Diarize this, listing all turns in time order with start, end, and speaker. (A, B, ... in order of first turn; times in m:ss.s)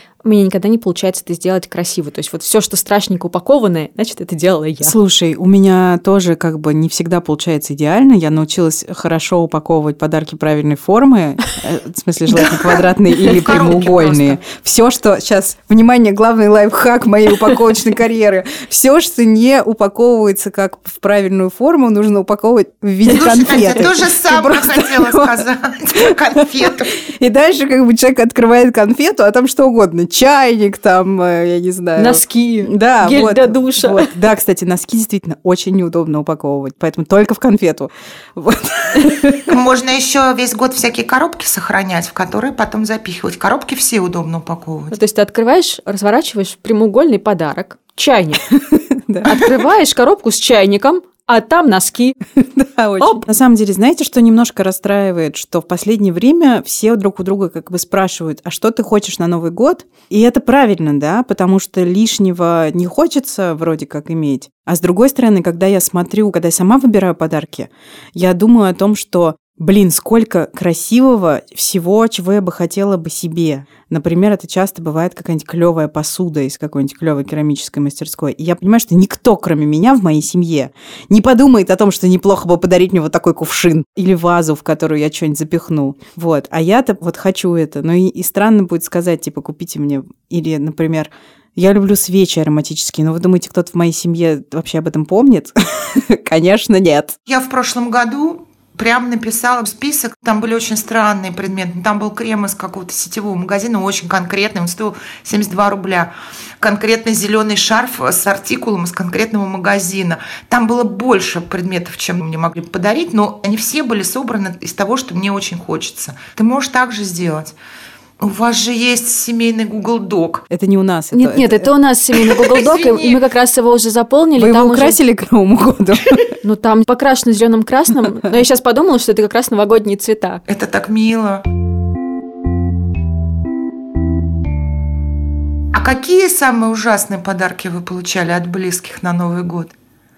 0:00.2-0:05.0 A
0:04.8-0:25.4 B
0:12.3-0:14.4 C
0:23.0-0:27.0 C
0:26.4-0:39.5 B
0:32.0-0:34.1 A
0:39.5-0:45.0 C
0:44.9-0:48.5 A
0:48.5-0:49.4 B
0:49.2-0:52.2 A
0:52.4-1:37.2 B
1:37.2-1:57.5 C
1:58.2-2:00.4 C
2:00.5-2:01.7 B
2:01.1-2:05.0 A
2:02.3-2:03.2 C
2:04.4-2:06.3 B
2:06.4-2:10.4 A
2:10.5-2:11.4 C
2:15.7-2:19.7 C